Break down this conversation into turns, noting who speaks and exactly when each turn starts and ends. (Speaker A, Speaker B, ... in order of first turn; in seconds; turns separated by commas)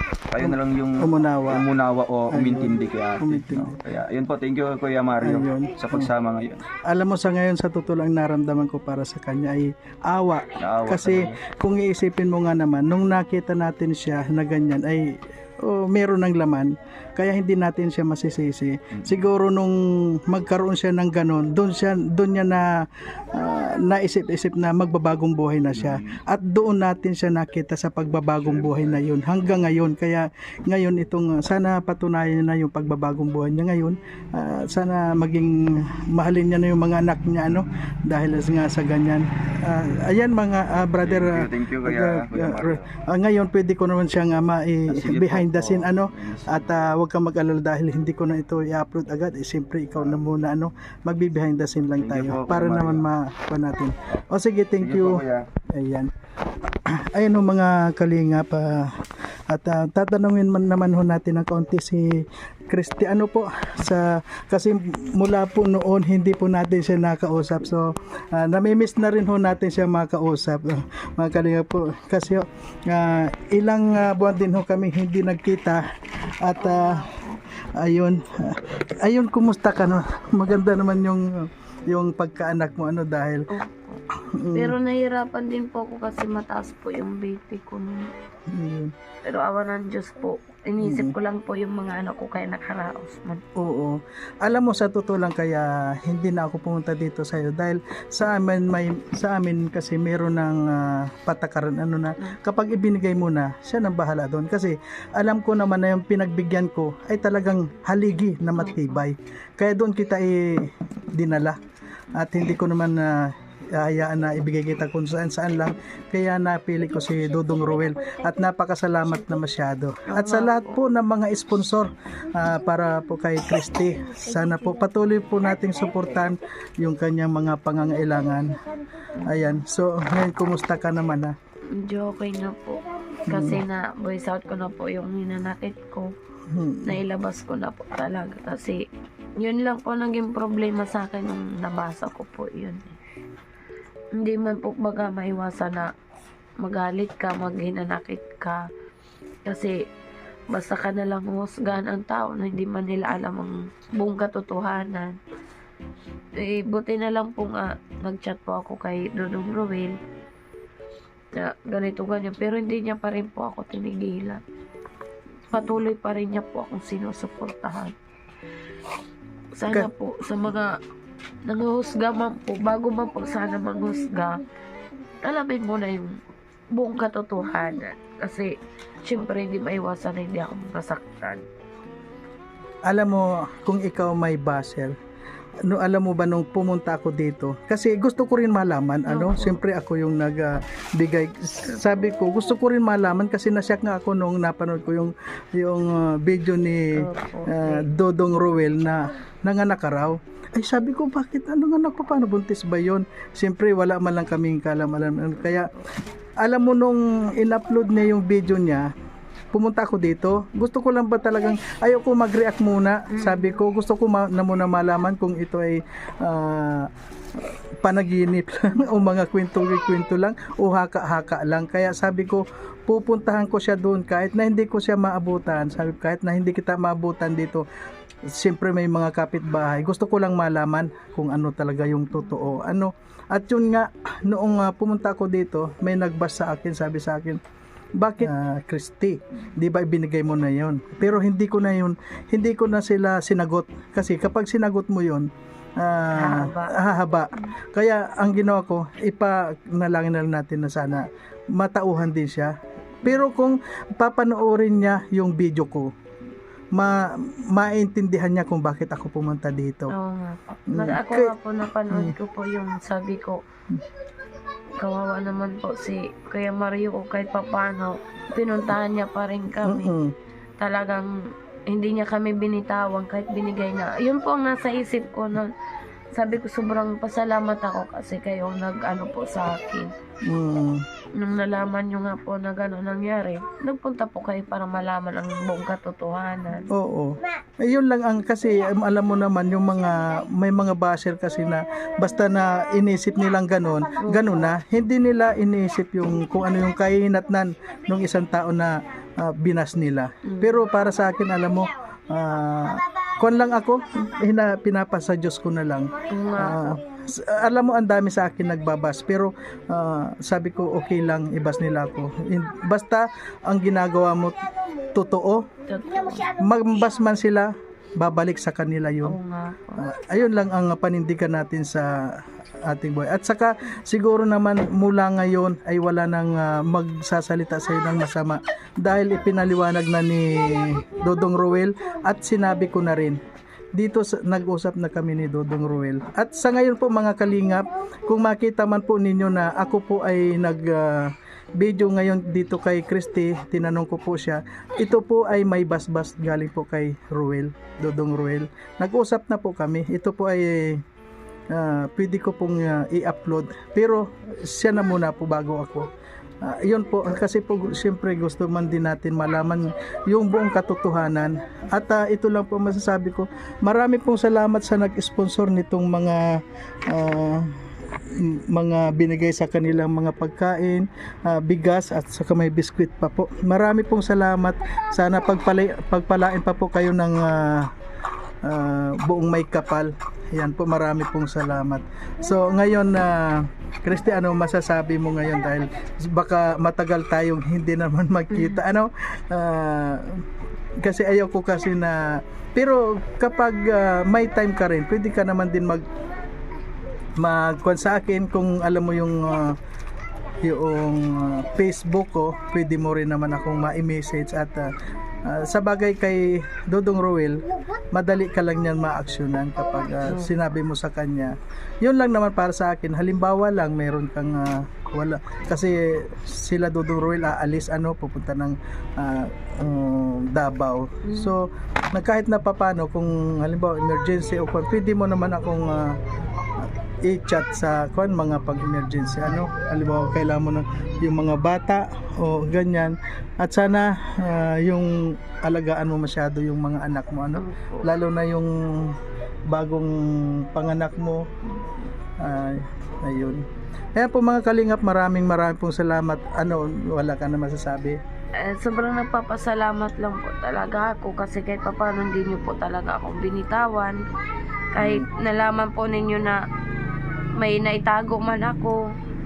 Speaker A: 0.3-6.7, Speaker B: 0.4-1.7, Speaker B: 2.3-3.8, Speaker B: 5.2-6.1, Speaker B: 6.8-56.1, Speaker A: 10.6-11.4, Speaker A: 18.9-19.2, Speaker A: 25.8-26.1, Speaker A: 28.4-29.0, Speaker A: 41.0-42.9, Speaker A: 44.9-46.7, Speaker A: 50.0-50.2, Speaker A: 52.0-53.1, Speaker A: 54.8-55.5, Speaker B: 56.9-58.9, Speaker B: 59.5-75.8, Speaker B: 76.4-77.0, Speaker C: 76.6-77.4, Speaker B: 77.8-83.5, Speaker C: 83.5-84.0, Speaker B: 84.2-84.8, Speaker C: 84.5-88.1, Speaker B: 88.5-88.9, Speaker C: 89.2-93.4, Speaker B: 90.8-91.1, Speaker B: 93.6-111.6, Speaker C: 108.6-109.0, Speaker B: 112.1-128.7, Speaker C: 120.1-120.8, Speaker C: 129.2-129.4, Speaker B: 129.2-131.3, Speaker C: 131.7-136.1, Speaker B: 133.3-133.6, Speaker B: 136.5-137.0, Speaker C: 136.8-138.8, Speaker C: 139.4-143.0, Speaker C: 144.2-145.9, Speaker C: 146.6-148.6, Speaker C: 149.5-149.8, Speaker C: 150.5-155.2, Speaker C: 156.4-159.9, Speaker C: 161.4-164.4, Speaker C: 165.5-167.9, Speaker C: 169.6-170.8, Speaker C: 171.4-174.4, Speaker C: 175.2-176.2, Speaker C: 176.7-181.4, Speaker B: 182.9-185.0, Speaker B: 185.7-205.7, Speaker C: 189.1-189.6, Speaker C: 197.0-197.9, Speaker B: 206.4-208.9, Speaker B: 209.5-227.6, Speaker C: 213.1-213.6, Speaker B: 228.3-237.4, Speaker B: 238.0-245.3, Speaker B: 245.8-251.0, Speaker C: 246.1-246.8, Speaker B: 251.6-255.9, Speaker B: 256.7-259.9, Speaker C: 259.9-263.4, Speaker B: 260.7-261.3, Speaker C: 264.8-269.9, Speaker B: 269.6-270.1, Speaker C: 270.6-271.1, Speaker C: 271.7-275.5, Speaker C: 276.1-279.9, Speaker B: 280.3-280.8, Speaker C: 281.1-286.7, Speaker B: 286.7-315.5, Speaker C: 294.0-294.5, Speaker C: 300.3-300.6, Speaker C: 306.1-306.8, Speaker C: 315.7-316.3, Speaker B: 316.4-319.2, Speaker C: 319.0-319.9, Speaker B: 319.8-333.2, Speaker B: 333.8-350.8, Speaker B: 351.5-355.9, Speaker B: 356.4-377.7, Speaker B: 378.4-390.2, Speaker C: 388.3-388.6, Speaker B: 390.8-395.9, Speaker B: 397.2-399.6, Speaker B: 400.4-404.7, Speaker B: 405.3-407.4, Speaker B: 407.9-426.0, Speaker C: 421.1-421.4, Speaker B: 427.1-439.0, Speaker C: 437.4-437.9, Speaker B: 439.5-441.2, Speaker C: 441.5-441.8, Speaker B: 442.2-443.4, Speaker B: 444.0-448.0, Speaker C: 448.4-454.0, Speaker C: 454.7-456.4, Speaker B: 454.8-455.1, Speaker C: 457.4-458.8